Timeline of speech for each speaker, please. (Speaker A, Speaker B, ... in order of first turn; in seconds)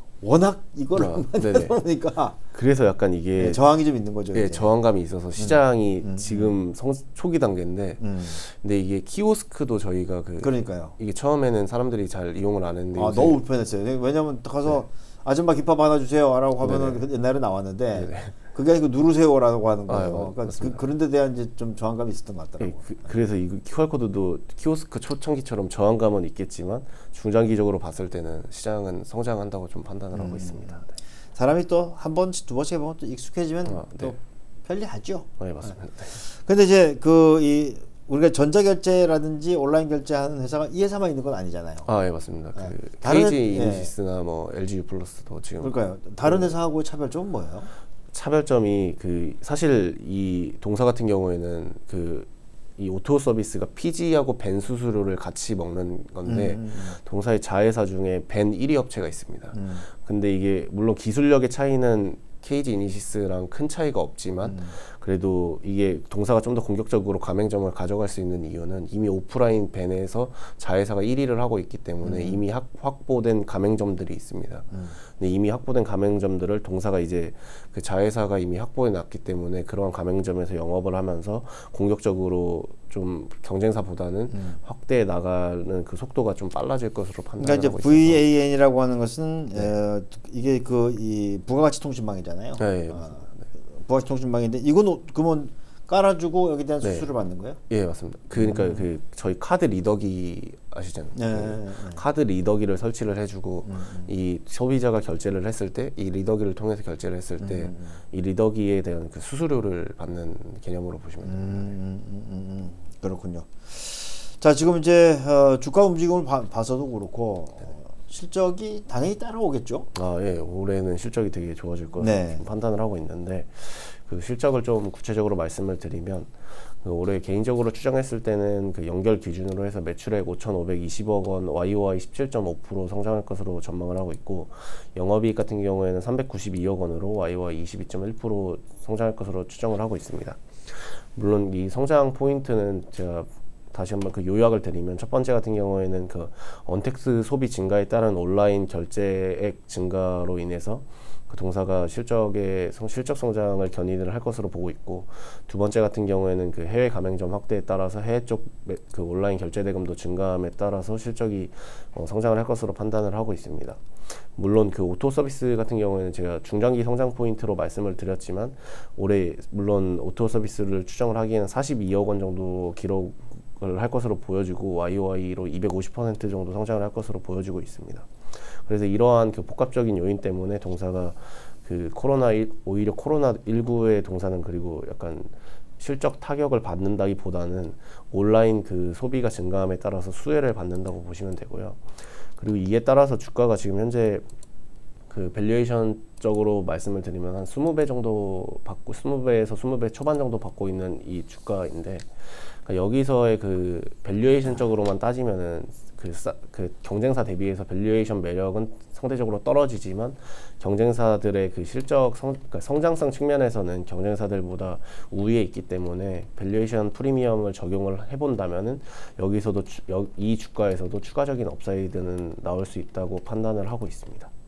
Speaker A: 0.2-2.4, 3.4-4.7, 5.3-6.5, 8.0-8.4, 10.4-10.9, 12.9-23.0, 30.1-41.9, 42.5-43.9, 45.6-47.7, 56.2-57.0, 59.5-59.9, 64.4-64.8, 72.0-72.4, 74.7-75.0, 84.3-84.6, 87.4-97.6, 98.3-98.9, 101.1-102.0, 103.6-104.1, 107.4-108.0, 111.2-119.9, 122.0-122.4
Speaker B: 0.9-1.8, 2.5-13.4, 16.6-17.1, 17.9-18.5, 19.9-20.8, 22.6-30.9, 33.6-34.1, 35.4-36.2, 41.8-46.5, 48.1-88.3, 89.5-89.8, 92.5-93.5, 96.8-111.8, 119.9-163.8, 164.3-194.2, 195.1-224.3